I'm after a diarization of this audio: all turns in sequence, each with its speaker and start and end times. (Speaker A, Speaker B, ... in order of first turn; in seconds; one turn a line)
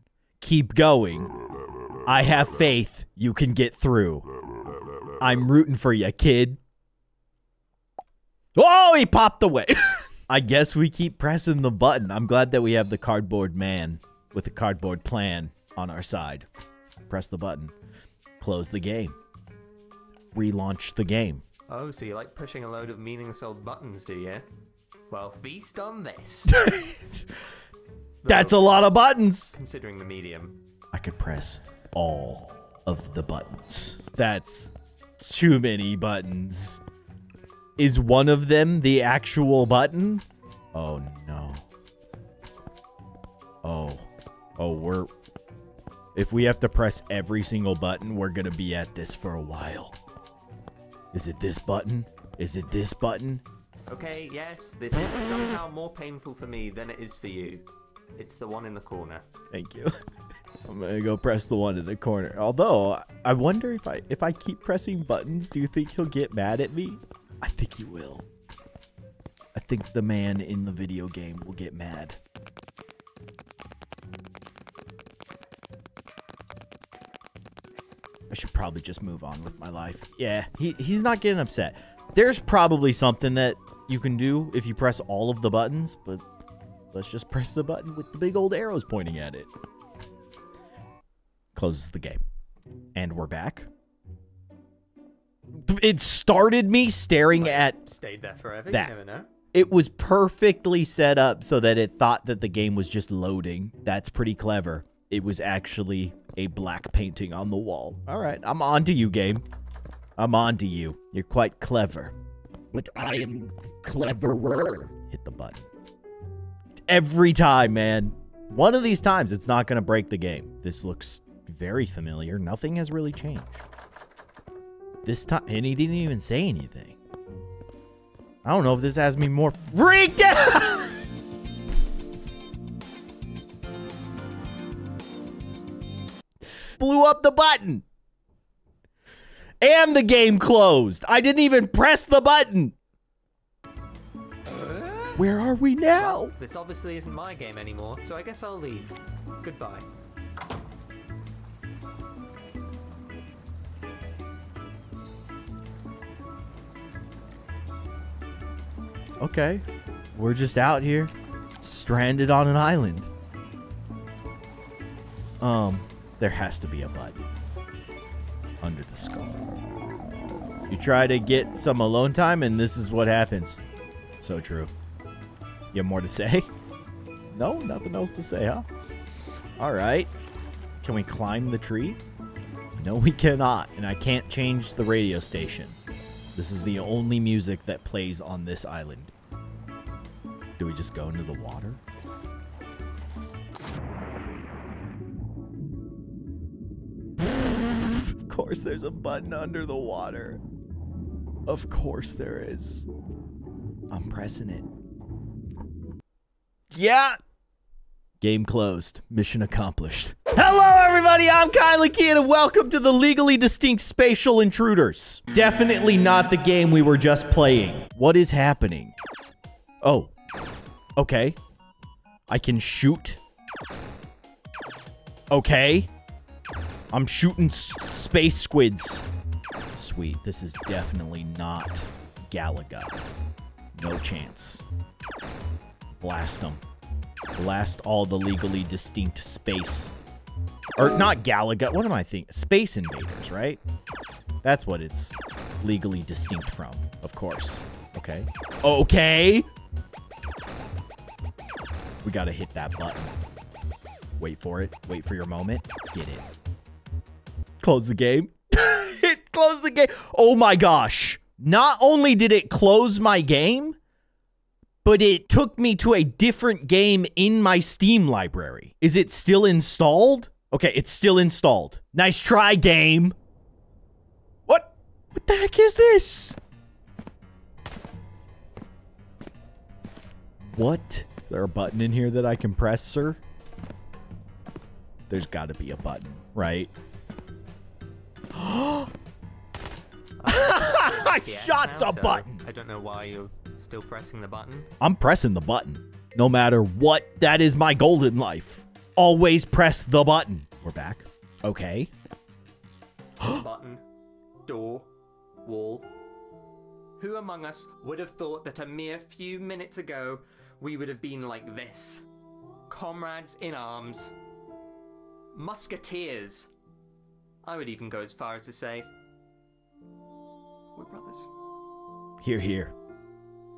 Speaker A: 0.4-1.3
Speaker A: 2.1-4.2
Speaker A: 5.2-6.6
Speaker A: 8.6-16.5
Speaker A: 17.1-17.7
Speaker A: 18.4-19.1
Speaker A: 20.3-21.4
Speaker B: 21.7-24.5
Speaker B: 25.1-26.7
Speaker A: 26.6-27.2
Speaker B: 28.2-28.7
Speaker A: 28.3-29.6
Speaker B: 29.6-30.6
Speaker A: 30.9-36.8
Speaker A: 37.8-41.6
Speaker A: 43.6-45.1
Speaker A: 46.1-50.0
Speaker A: 51.1-53.4
Speaker B: 53.9-59.3
Speaker A: 59.5-59.9
Speaker A: 60.6-68.2
Speaker A: 69.5-72.2
Speaker A: 78.3-86.2
Speaker A: 86.9-89.5
Speaker A: 91.5-92.2
Speaker A: 93.0-93.7
Speaker A: 95.5-97.8
Speaker B: 97.3-99.3
Speaker A: 99.5-109.4
Speaker A: 110.2-112.1
Speaker C: 112.7-114.9
Speaker A: 115.0-115.7
Speaker A: 116.9-123.6
Speaker A: 125.0-127.0
Speaker A: 128.4-130.9
Speaker A: 136.8-137.8
Speaker A: 139.6-142.7
Speaker A: 145.2-146.3
Speaker B: 145.9-149.9
Speaker A: 159.2-159.6
Speaker A: 160.2-163.1
Speaker A: 165.4-167.2
Speaker A: 168.6-169.4
Speaker A: 170.7-173.7
Speaker A: 174.2-174.7
Speaker A: 175.7-176.5
Speaker A: 177.3-178.7
Speaker A: 179.6-180.1
Speaker A: 180.8-182.0
Speaker A: 182.8-185.8
Speaker A: 186.3-189.1
Speaker A: 190.6-191.8
Speaker A: 197.2-200.4
Speaker A: 201.5-202.9
Speaker A: 203.9-204.7
Speaker A: 206.7-207.2
Speaker A: 208.2-218.9
Speaker A: 219.8-220.1
Speaker A: 221.0-221.4
Speaker A: 222.3-223.2
Speaker A: 225.3-225.9
Speaker A: 226.9-229.1
Speaker A: 229.7-232.9
Speaker A: 233.8-234.6
Speaker A: 236.0-236.6
Speaker A: 237.3-239.9
Speaker A: 240.8-243.6
Speaker A: 244.4-249.5
Speaker A: 252.0-253.1
Speaker A: 254.2-256.3
Speaker A: 257.6-263.8
Speaker A: 264.8-273.1
Speaker A: 274.5-276.4
Speaker A: 280.5-283.2
Speaker A: 285.1-286.7
Speaker A: 288.3-288.9
Speaker B: 290.2-294.7
Speaker A: 290.3-292.4
Speaker A: 294.8-301.9
Speaker B: 303.2-303.8
Speaker B: 304.5-304.9
Speaker B: 305.4-305.9
Speaker B: 307.0-312.1
Speaker B: 312.7-314.1
Speaker B: 315.3-316.5
Speaker B: 317.4-318.9
Speaker B: 320.8-321.3
Speaker A: 322.2-322.7